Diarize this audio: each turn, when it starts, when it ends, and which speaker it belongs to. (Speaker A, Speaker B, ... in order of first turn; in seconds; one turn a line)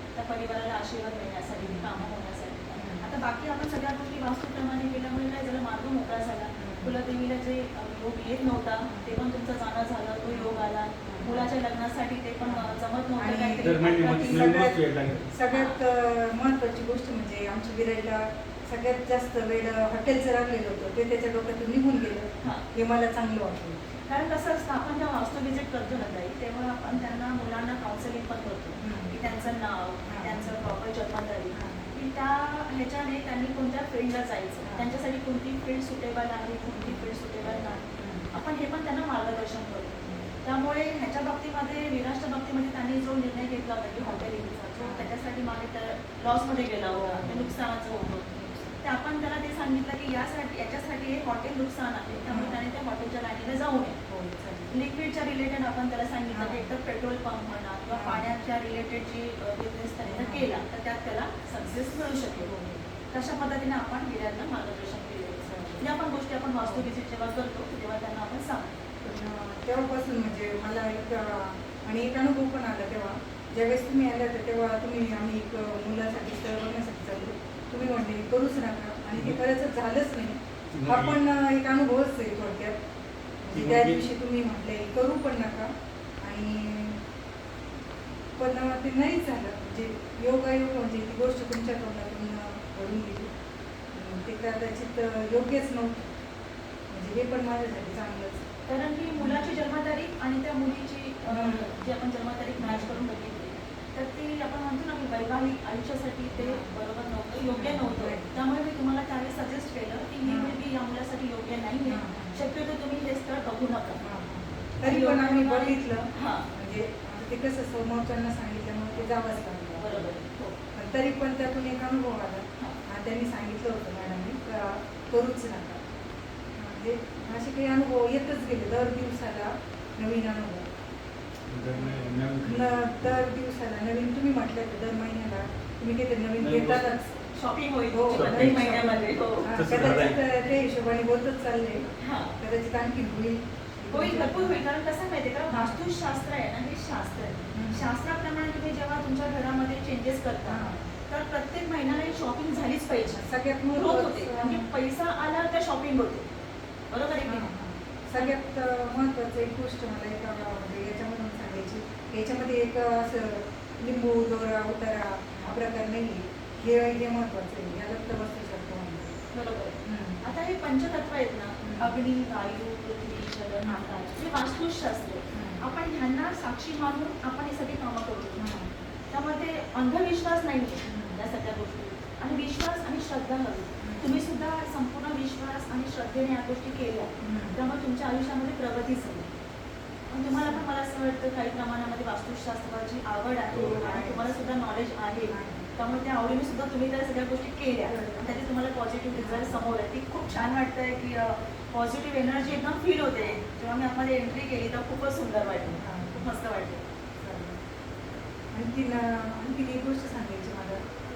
Speaker A: 0.2-14.7
Speaker B: 1.6-2.0
Speaker B: 2.8-3.1
Speaker B: 6.6-7.0
Speaker B: 8.8-9.1
Speaker B: 10.3-11.5
Speaker B: 12.4-23.8
Speaker C: 13.6-15.3
Speaker A: 15.5-15.8
Speaker A: 24.1-54.0
Speaker B: 28.8-29.3
Speaker B: 30.1-30.7
Speaker B: 31.5-31.9
Speaker B: 34.6-34.9
Speaker B: 36.7-37.1
Speaker B: 37.9-38.3
Speaker B: 40.0-40.3
Speaker B: 44.0-44.3
Speaker B: 44.8-45.1
Speaker B: 46.9-48.8
Speaker B: 52.3-52.6
Speaker B: 54.1-54.7
Speaker A: 54.7-62.5
Speaker B: 56.3-56.6
Speaker B: 57.9-58.2
Speaker B: 60.0-60.5
Speaker B: 62.4-62.9
Speaker A: 63.1-68.7
Speaker B: 65.5-65.8
Speaker B: 66.6-66.9
Speaker B: 69.0-82.8
Speaker C: 80.7-81.2
Speaker B: 83.4-87.0
Speaker C: 83.5-84.0
Speaker B: 88.4-93.3
Speaker B: 93.9-96.1
Speaker B: 96.9-98.5
Speaker A: 98.7-114.0
Speaker B: 99.2-99.5
Speaker B: 101.3-101.8
Speaker B: 102.6-103.0
Speaker B: 106.4-106.7
Speaker B: 107.5-108.4
Speaker B: 110.2-110.6
Speaker B: 111.8-112.4
Speaker B: 114.0-120.1
Speaker A: 114.8-116.5
Speaker A: 119.8-120.6
Speaker B: 120.7-125.9
Speaker B: 126.6-130.7
Speaker C: 131.5-132.7
Speaker B: 131.7-137.2
Speaker C: 136.4-136.9
Speaker A: 137.3-139.5
Speaker B: 137.9-144.6
Speaker C: 138.1-138.8
Speaker C: 139.4-140.2
Speaker A: 142.0-142.4
Speaker A: 143.9-156.3
Speaker B: 145.5-145.8
Speaker B: 147.5-147.9
Speaker B: 150.5-150.9
Speaker B: 153.1-154.7
Speaker A: 156.9-157.5
Speaker B: 157.3-169.1
Speaker A: 169.3-178.5
Speaker B: 169.8-170.2
Speaker B: 171.6-171.9
Speaker B: 173.6-173.9
Speaker B: 175.3-175.6
Speaker B: 178.4-178.7
Speaker A: 179.1-189.3
Speaker B: 180.8-181.2
Speaker B: 183.8-184.2
Speaker B: 187.2-187.6
Speaker A: 190.1-206.8
Speaker B: 190.4-190.7
Speaker B: 193.5-194.3
Speaker B: 195.3-195.7
Speaker B: 197.9-198.3
Speaker B: 199.2-199.6
Speaker B: 205.8-206.3
Speaker B: 207.2-207.6
Speaker B: 208.5-210.8